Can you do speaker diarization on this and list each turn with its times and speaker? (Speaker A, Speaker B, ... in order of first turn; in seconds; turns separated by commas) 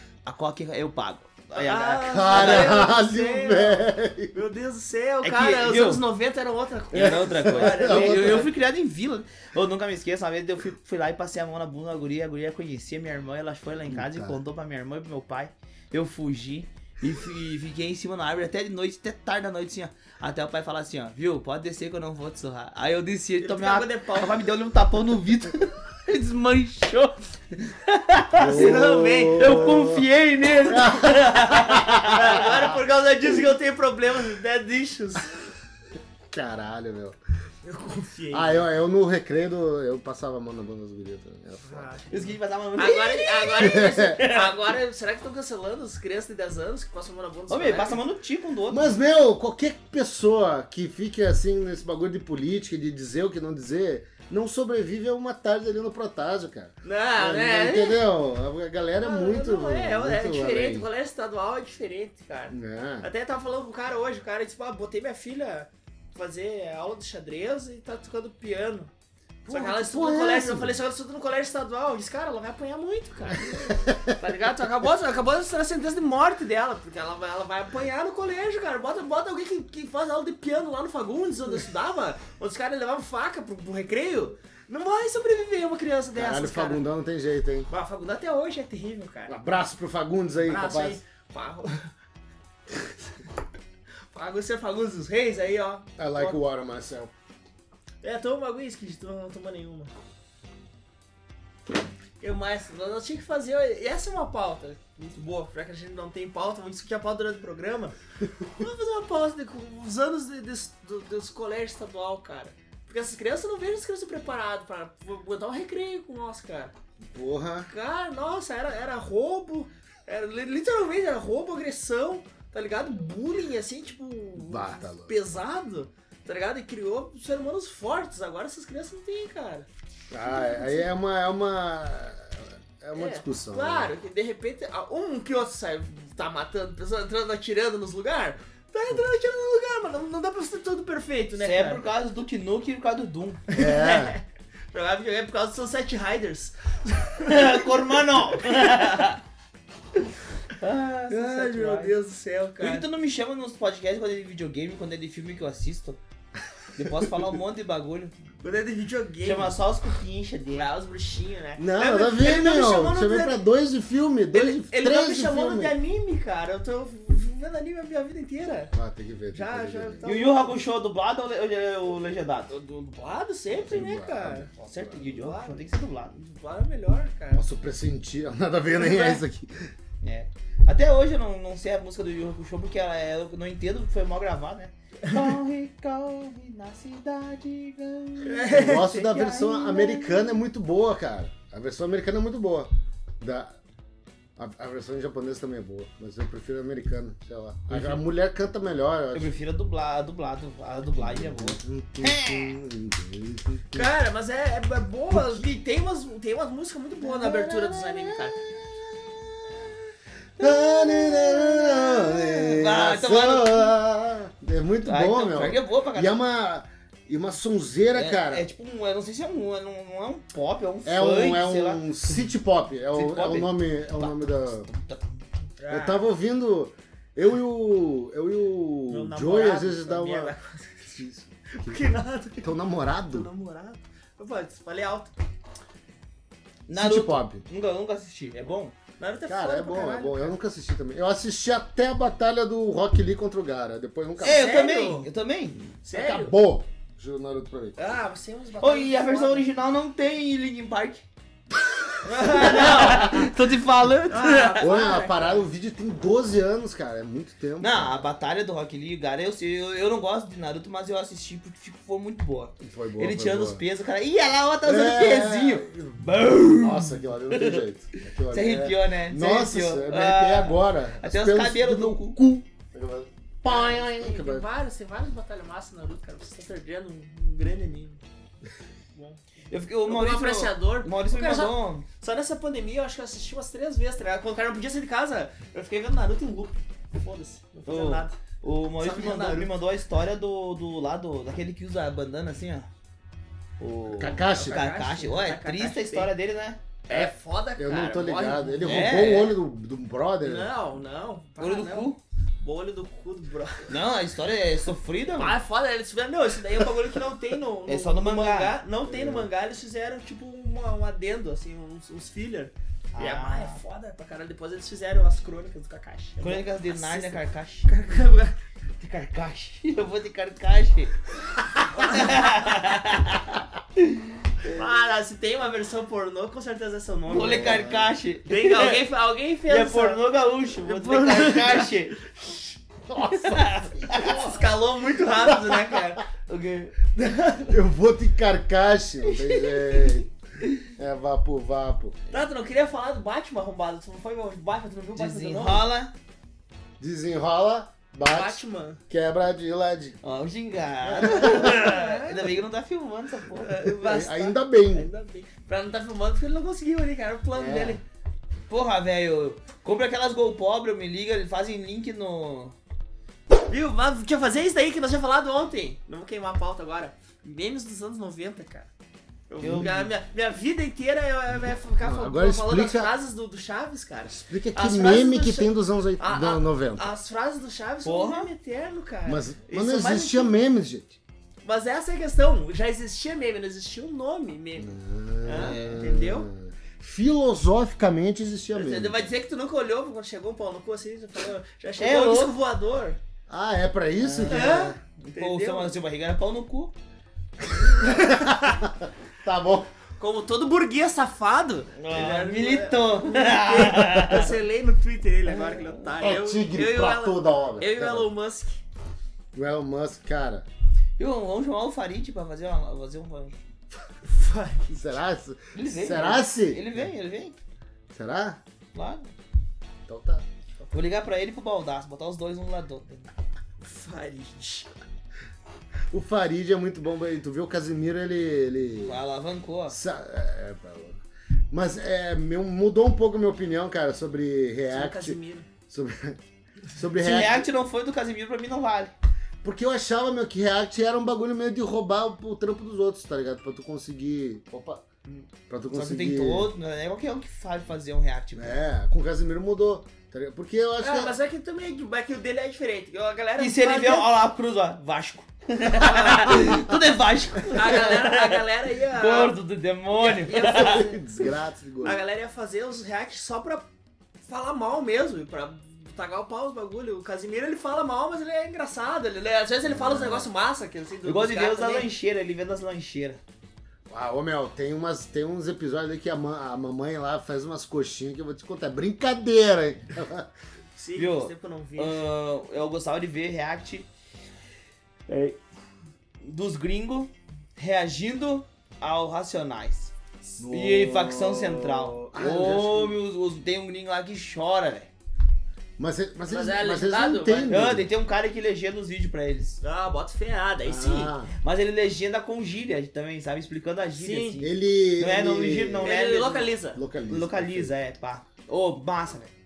Speaker A: 0.2-2.8, Speaker B: 1.5-8.5, Speaker C: 2.1-4.3, Speaker A: 5.2-6.0, Speaker A: 6.9-32.5, Speaker C: 6.9-8.5, Speaker C: 13.9-14.4, Speaker B: 23.4-24.4, Speaker C: 28.3-30.1, Speaker B: 28.4-29.8, Speaker C: 30.6-32.8, Speaker B: 32.1-35.5, Speaker C: 36.3-37.2, Speaker B: 37.6-38.6, Speaker C: 38.3-41.9, Speaker B: 41.6-48.0, Speaker A: 42.1-44.5, Speaker C: 43.6-44.2, Speaker A: 47.5-48.9, Speaker C: 48.7-60.9, Speaker B: 56.8-58.1, Speaker B: 59.0-68.9, Speaker C: 62.5-63.1, Speaker C: 69.5-70.8, Speaker B: 69.5-86.8, Speaker C: 73.7-74.1, Speaker C: 86.1-87.7, Speaker B: 87.7-89.3, Speaker C: 89.3-91.0, Speaker B: 90.4-91.9, Speaker B: 94.1-95.9, Speaker C: 96.0-97.1, Speaker B: 98.0-99.9, Speaker B: 102.2-108.0, Speaker B: 108.5-116.7, Speaker C: 117.1-117.7, Speaker B: 117.7-129.7, Speaker C: 124.3-125.1, Speaker C: 130.1-133.9, Speaker B: 130.2-130.9, Speaker B: 132.9-141.8, Speaker A: 141.4-143.4, Speaker B: 143.5-147.7, Speaker C: 143.6-144.2, Speaker A: 147.2-149.2, Speaker B: 148.3-149.1, Speaker A: 150.6-151.9, Speaker B: 151.1-152.9, Speaker A: 152.6-156.0, Speaker A: 156.8-158.1, Speaker B: 158.4-159.6, Speaker A: 159.2-160.7, Speaker B: 160.6-163.4, Speaker C: 161.6-165.7, Speaker B: 164.3-168.7, Speaker C: 168.7-170.1, Speaker B: 169.3-170.6, Speaker A: 170.0-172.6, Speaker B: 172.5-174.5, Speaker C: 173.6-175.0, Speaker A: 174.6-176.2, Speaker B: 175.0-177.4, Speaker C: 177.3-179.7, Speaker B: 178.8-179.2, Speaker A: 180.0-190.2, Speaker B: 188.2-189.1, Speaker C: 188.5-193.6, Speaker C: 194.4-199.3, Speaker A: 197.7-198.0, Speaker A: 199.1-202.6, Speaker C: 201.0-203.8, Speaker B: 203.7-208.4, Speaker C: 205.1-205.4, Speaker A: 207.2-209.5, Speaker A: 210.4-213.7, Speaker C: 210.4-218.4, Speaker A: 214.8-216.2, Speaker A: 217.9-221.8, Speaker C: 220.8-224.7, Speaker A: 222.9-225.2, Speaker B: 225.6-226.1, Speaker C: 225.7-230.3, Speaker B: 228.9-231.0, Speaker C: 230.9-231.8, Speaker B: 231.5-232.5, Speaker C: 232.4-233.3, Speaker B: 233.0-235.1, Speaker A: 236.7-238.7, Speaker C: 236.7-237.4, Speaker B: 239.0-240.3, Speaker C: 239.3-244.5, Speaker B: 244.2-245.1, Speaker A: 244.2-245.7, Speaker B: 245.8-246.3, Speaker C: 245.9-247.8, Speaker B: 247.8-249.5, Speaker A: 248.6-251.0, Speaker B: 252.0-253.3, Speaker A: 252.1-254.7, Speaker B: 254.1-255.4, Speaker C: 254.6-258.0, Speaker A: 257.6-267.6, Speaker C: 262.6-263.6, Speaker C: 264.6-274.4, Speaker A: 268.3-272.4, Speaker B: 273.4-278.0, Speaker B: 278.9-279.2, Speaker A: 279.5-281.9, Speaker B: 279.8-288.2, Speaker A: 287.7-292.7, Speaker B: 288.8-289.5, Speaker A: 293.6-296.6, Speaker C: 293.9-294.6, Speaker B: 294.2-296.1, Speaker B: 296.9-299.0, Speaker C: 296.9-300.5, Speaker A: 298.6-299.4, Speaker B: 300.2-303.7, Speaker A: 301.4-302.0, Speaker A: 303.7-305.4, Speaker B: 305.2-318.4, Speaker A: 307.7-308.6, Speaker C: 308.8-309.3, Speaker A: 312.9-313.6, Speaker A: 316.2-317.7, Speaker A: 318.8-320.9, Speaker A: 321.7-324.6, Speaker B: 321.7-322.6, Speaker B: 324.5-327.7, Speaker A: 327.1-328.8, Speaker C: 327.4-327.9, Speaker B: 328.2-330.0, Speaker A: 329.5-332.0, Speaker B: 330.6-332.5, Speaker C: 332.9-334.5, Speaker A: 333.1-334.4, Speaker B: 334.0-336.0, Speaker C: 335.3-335.8, Speaker A: 336.3-336.7, Speaker B: 336.9-337.6, Speaker C: 337.5-340.1, Speaker A: 339.1-340.6, Speaker C: 340.7-341.9, Speaker B: 342.1-345.7, Speaker A: 344.9-345.9, Speaker C: 346.8-350.0, Speaker B: 348.1-348.8, Speaker A: 350.0-353.5, Speaker B: 350.8-352.3, Speaker C: 351.0-351.5, Speaker B: 353.4-357.8, Speaker C: 353.7-354.9, Speaker C: 357.3-357.8, Speaker A: 358.5-362.6, Speaker B: 363.5-368.7, Speaker B: 369.3-380.3, Speaker A: 369.4-369.8, Speaker C: 369.5-369.9, Speaker C: 371.8-372.9, Speaker C: 374.1-376.9, Speaker A: 377.8-378.3, Speaker C: 379.1-381.0, Speaker B: 381.4-384.7, Speaker C: 384.6-389.1, Speaker B: 385.2-386.3, Speaker A: 385.3-385.9, Speaker B: 388.5-393.0, Speaker A: 391.8-392.3, Speaker C: 393.3-394.8, Speaker A: 394.0-396.7, Speaker B: 394.3-395.8, Speaker C: 397.6-399.7, Speaker B: 397.8-398.4, Speaker B: 400.0-408.6, Speaker A: 401.8-404.3, Speaker A: 405.2-405.8, Speaker C: 406.0-408.1, Speaker C: 409.3-410.5, Speaker A: 411.0-413.4, Speaker B: 414.0-414.9, Speaker C: 414.7-416.9, Speaker A: 415.5-417.4, Speaker C: 417.9-418.4, Speaker A: 418.7-419.1, Speaker C: 419.9-420.2, Speaker A: 420.7-423.1, Speaker B: 423.6-424.7, Speaker C: 425.9-429.0, Speaker A: 428.9-429.8, Speaker C: 429.7-436.2, Speaker B: 434.7-435.5, Speaker C: 436.7-437.5, Speaker A: 437.0-438.9, Speaker C: 439.4-444.8, Speaker C: 445.5-446.5, Speaker A: 445.7-448.6, Speaker C: 448.3-451.1, Speaker B: 450.8-454.1, Speaker A: 453.4-460.9, Speaker B: 455.6-456.6, Speaker B: 457.5-459.4, Speaker B: 459.9-463.7, Speaker C: 460.4-462.0, Speaker B: 464.2-471.9, Speaker C: 469.6-470.3, Speaker A: 471.0-473.2, Speaker C: 473.9-480.3, Speaker B: 480.7-482.0, Speaker A: 481.0-483.9, Speaker A: 485.1-485.4, Speaker A: 486.2-489.9, Speaker C: 490.4-493.0, Speaker A: 490.5-494.9, Speaker C: 495.8-497.9, Speaker B: 496.3-497.5, Speaker A: 497.5-499.6, Speaker B: 499.6-501.1, Speaker C: 500.6-501.3, Speaker A: 501.4-506.5, Speaker B: 503.9-504.4, Speaker C: 504.4-505.9, Speaker B: 505.8-506.8, Speaker C: 506.7-507.7, Speaker A: 507.1-509.3